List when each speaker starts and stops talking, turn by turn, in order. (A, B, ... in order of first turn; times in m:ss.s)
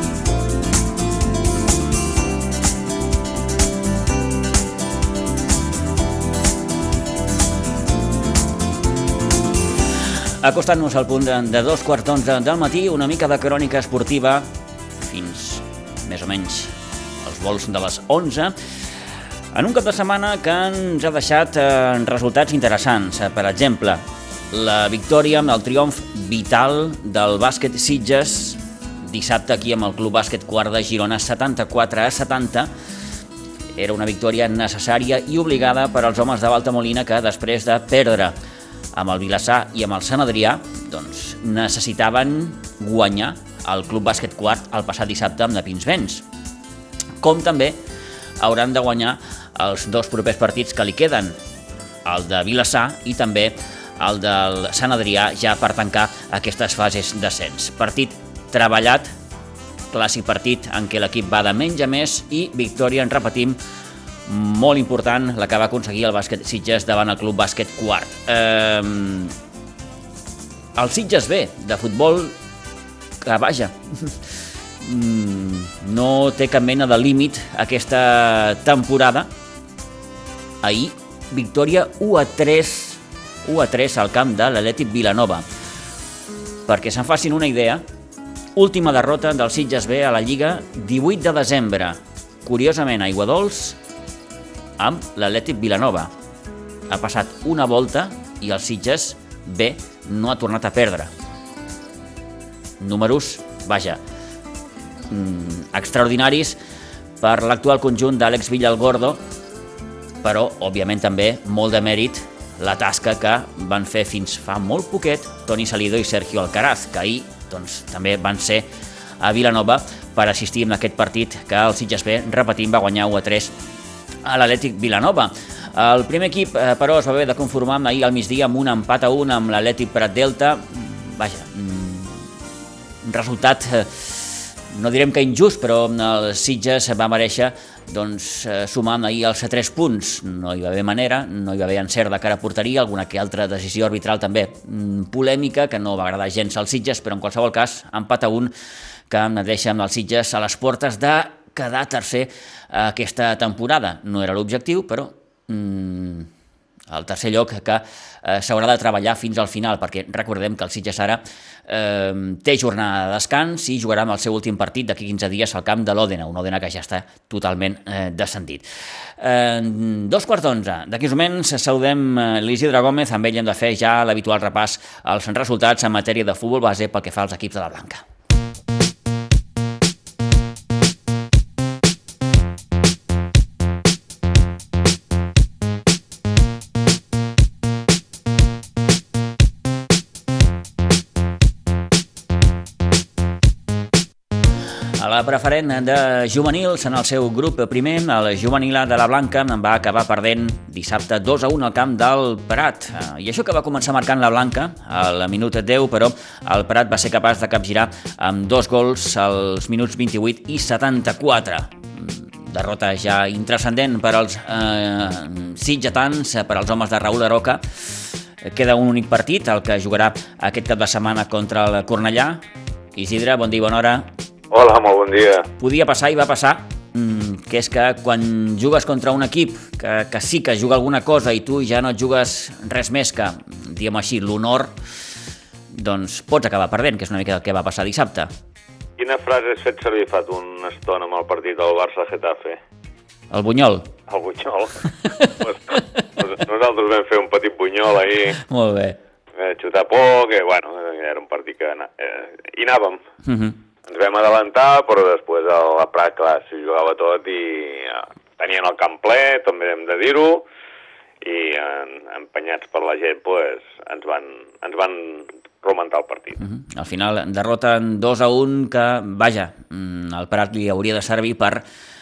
0:10.4-0:14.5 A
0:15.0-0:18.5 A
0:19.5-0:32.7 A
0:33.8-0:38.3 A
0:38.9-0:46.2 A
0:47.2-0:47.8 A
0:48.4-0:51.4 A
0:52.0-0:59.1 A
0:59.9-1:03.6 A
1:04.3-1:09.3 A
1:10.8-1:12.3 A
1:13.2-1:14.2 A
1:14.8-1:19.3 A
1:20.6-1:25.4 A
1:26.7-1:27.8 A
1:28.6-1:33.8 A
1:34.8-1:36.1 A
1:36.9-1:41.1 A
1:42.8-1:44.0 A
1:45.1-1:46.6 A
1:47.2-1:49.2 A
1:50.2-1:58.7 A
1:59.2-2:03.5 A
2:04.2-2:12.2 A
2:13.0-2:28.5 A
2:29.1-2:36.3 A
2:36.9-2:48.6 A
2:49.2-2:58.0 A
3:15.0-3:37.6 A
3:38.4-3:42.4 A
3:43.0-3:44.1 A
3:44.5-3:45.5 B
3:45.6-3:54.7 A
3:55.7-3:58.3 A
3:59.0-4:02.6 B
4:03.3-4:03.9 A
4:04.1-4:04.8 B
4:05.4-4:08.4 B
4:08.4-4:09.0 A
4:09.4-4:13.0 B
4:13.2-4:13.6 A
4:13.9-4:20.4 B
4:21.2-4:26.4 B
4:26.4-4:31.6 A